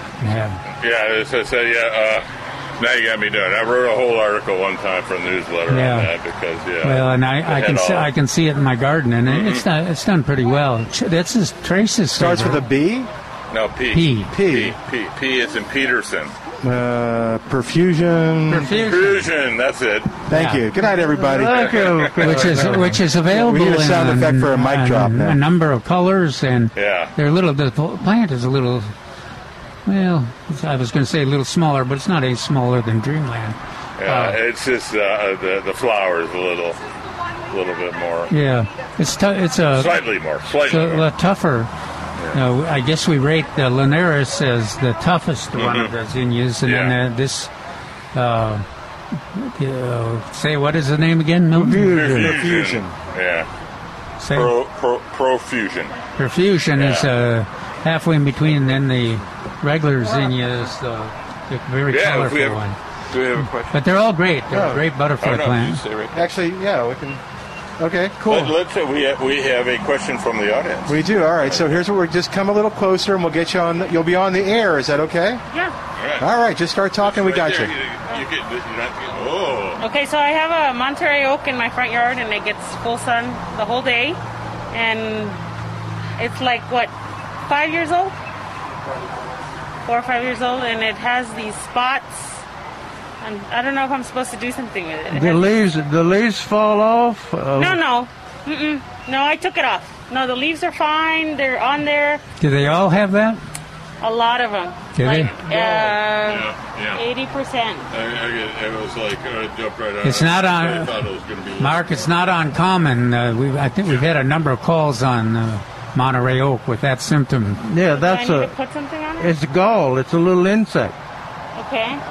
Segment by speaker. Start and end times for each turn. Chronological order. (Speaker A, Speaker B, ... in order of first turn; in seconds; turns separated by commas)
Speaker A: 0.2-0.6, Speaker B: 0.8-2.3, Speaker B: 2.8-8.1, Speaker A: 5.7-6.1, Speaker A: 6.8-12.6, Speaker B: 9.3-9.7, Speaker C: 12.1-13.1, Speaker B: 13.5-16.3, Speaker A: 13.9-14.3, Speaker C: 14.3-14.8, Speaker C: 16.6-18.7, Speaker A: 18.5-19.3, Speaker B: 18.7-20.3, Speaker C: 20.3-22.7, Speaker A: 20.3-20.6, Speaker D: 21.1-23.0, Speaker B: 21.5-22.2, Speaker A: 22.2-28.9, Speaker C: 23.3-25.4, Speaker B: 26.8-27.1, Speaker A: 29.9-34.4, Speaker B: 34.0-36.8, Speaker B: 37.5-38.3, Speaker A: 38.3-41.7, Speaker B: 39.7-41.1, Speaker A: 42.3-47.5, Speaker B: 45.5-45.9, Speaker B: 46.6-47.0, Speaker A: 48.1-48.7, Speaker A: 49.3-52.1, Speaker D: 51.5-52.4, Speaker B: 51.8-53.5, Speaker C: 51.9-53.0, Speaker A: 54.2-54.6, Speaker B: 54.3-56.0, Speaker A: 56.2-62.8, Speaker B: 56.7-57.1, Speaker B: 61.9-63.8, Speaker A: 63.7-65.8, Speaker C: 64.5-64.8, Speaker B: 65.2-66.3, Speaker C: 66.1-67.2, Speaker C: 67.8-68.6, Speaker B: 68.2-71.8, Speaker C: 70.9-75.4, Speaker B: 76.0-76.2, Speaker C: 76.2-77.8, Speaker B: 77.0-79.8, Speaker E: 79.8-84.2, Speaker E: 84.7-85.4, Speaker E: 86.2-86.9, Speaker E: 87.5-88.2, Speaker E: 89.9-92.4, Speaker E: 93.2-95.5, Speaker D: 95.1-97.8, Speaker E: 97.6-102.2, Speaker A: 102.4-103.4, Speaker E: 104.0-107.8, Speaker A: 105.0-105.8, Speaker B: 105.5-107.0, Speaker B: 107.9-112.1, Speaker A: 110.0-111.0, Speaker A: 111.6-117.6, Speaker D: 117.6-118.5, Speaker E: 117.9-119.3, Speaker D: 119.2-121.0, Speaker E: 121.6-122.0